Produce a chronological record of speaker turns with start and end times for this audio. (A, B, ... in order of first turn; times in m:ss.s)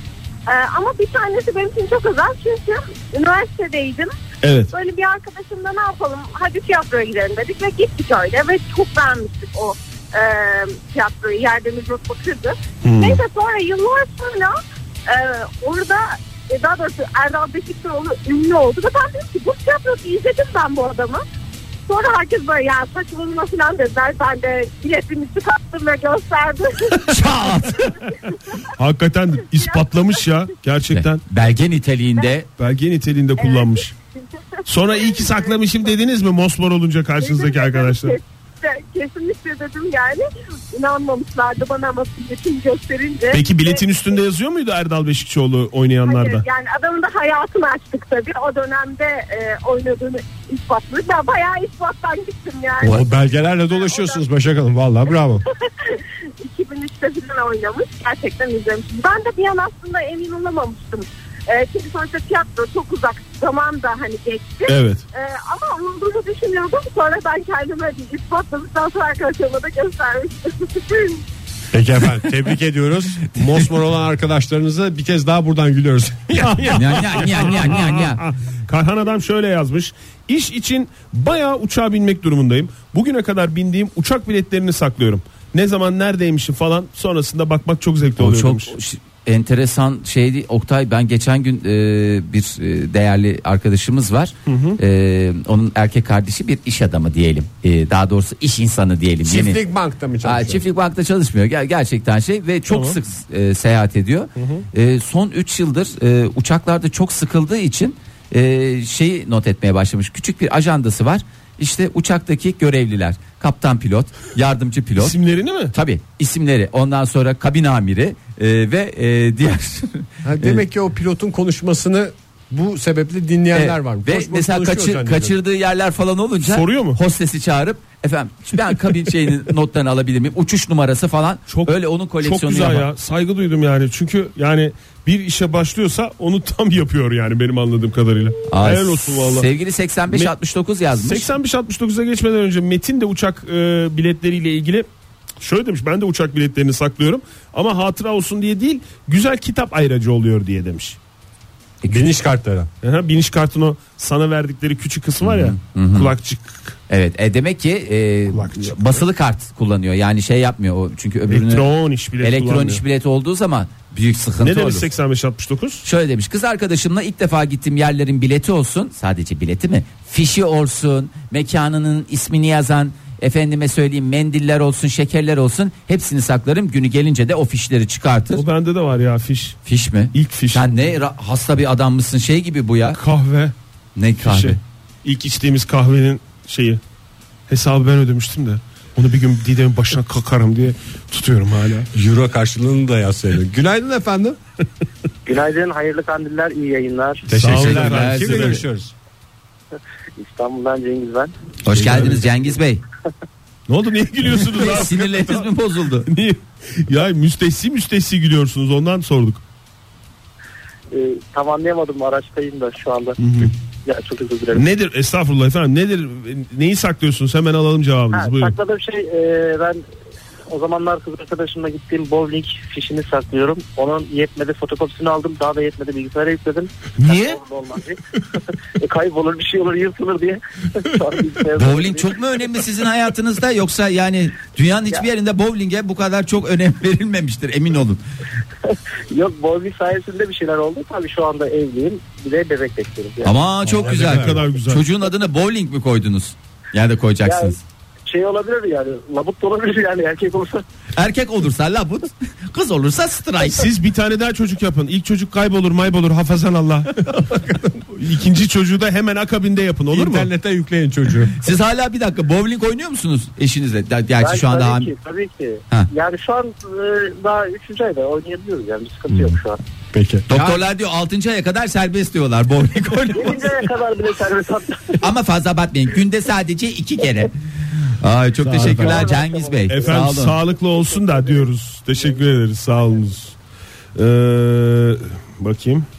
0:00.5-0:04.1 A
0:04.4-0:04.7 B
0:04.7-0:21.2 A
0:12.8-0:13.2 B
0:21.9-0:27.8 A
0:27.1-0:27.9 C
0:28.8-0:31.2 B
0:29.4-0:30.4 A
0:30.9-0:32.5 C
0:32.6-0:33.9 B
0:33.4-0:33.9 A
0:34.6-0:38.2 B
0:34.9-0:35.9 A
0:37.2-0:44.1 A
0:43.3-0:46.4 B
0:46.0-0:53.0 A
0:52.8-0:55.4 D
0:53.7-0:54.2 A
0:55.8-1:11.2 A
1:04.6-1:05.0 B
1:11.7-1:17.6 D
1:16.4-1:28.7 B
1:16.7-1:18.2 C
1:28.2-1:39.6 C
1:34.5-1:34.8 B
1:39.2-1:40.6 D
1:40.2-1:55.2 C
1:42.7-1:43.0 B
1:44.4-1:44.6 B
1:55.0-1:55.7 B
1:55.7-2:00.6 C
2:00.2-2:05.4 D
2:03.5-2:12.9 C
2:06.4-2:07.0 B
2:11.5-2:19.5 B
2:18.5-2:21.3 C
2:20.9-2:24.9 B
2:25.4-2:31.0 B
2:31.8-2:32.1 C
2:31.8-2:32.7 D
2:32.8-2:36.8 B
2:35.2-2:36.1 C
2:36.9-2:41.6 C
2:38.3-2:39.0 B
2:41.3-2:42.8 B
2:42.2-2:44.9 C
2:44.4-2:45.8 B
2:45.8-2:58.4 C
2:58.3-2:59.6 B
2:59.6-3:03.0 C
3:00.1-3:00.6 B
3:02.8-3:03.5 B
3:04.0-3:04.6 C
3:04.2-3:06.8 B
3:07.5-3:11.9 B
3:11.9-3:14.4 D
3:15.2-3:17.3 E
3:17.3-3:18.9 D
3:17.3-3:18.6 B
3:17.4-3:18.6 C
3:20.2-3:21.3 E
3:21.6-3:22.8 C
3:21.7-3:22.2 D
3:21.8-3:22.1 B
3:23.7-3:25.5 B
3:24.6-3:26.1 C
3:26.0-3:29.4 B
3:30.9-3:33.2 E
3:33.2-3:33.5 B
3:33.8-3:34.7 E
3:34.5-3:38.6 B
3:38.1-3:39.8 E
3:40.5-3:52.1 E
3:47.0-3:47.4 B
3:51.5-3:58.0 C
3:58.6-4:03.4 E
4:03.2-4:07.6 C
4:03.7-4:04.4 D
4:03.7-4:04.9 B
4:07.2-4:10.6 E
4:10.9-4:13.7 C
4:13.4-4:17.3 B
4:17.8-4:20.3 B
4:19.9-4:21.3 D
4:21.4-4:24.9 C
4:24.2-4:29.6 E
4:29.1-4:29.4 D
4:29.9-4:30.6 D
4:30.3-4:33.6 C
4:33.1-4:35.1 E
4:35.0-4:37.3 C
4:38.0-4:40.4 C
4:38.4-4:39.1 B
4:38.6-4:40.1 E
4:39.7-4:43.3 B
4:40.7-4:41.4 E
4:44.0-4:45.8 B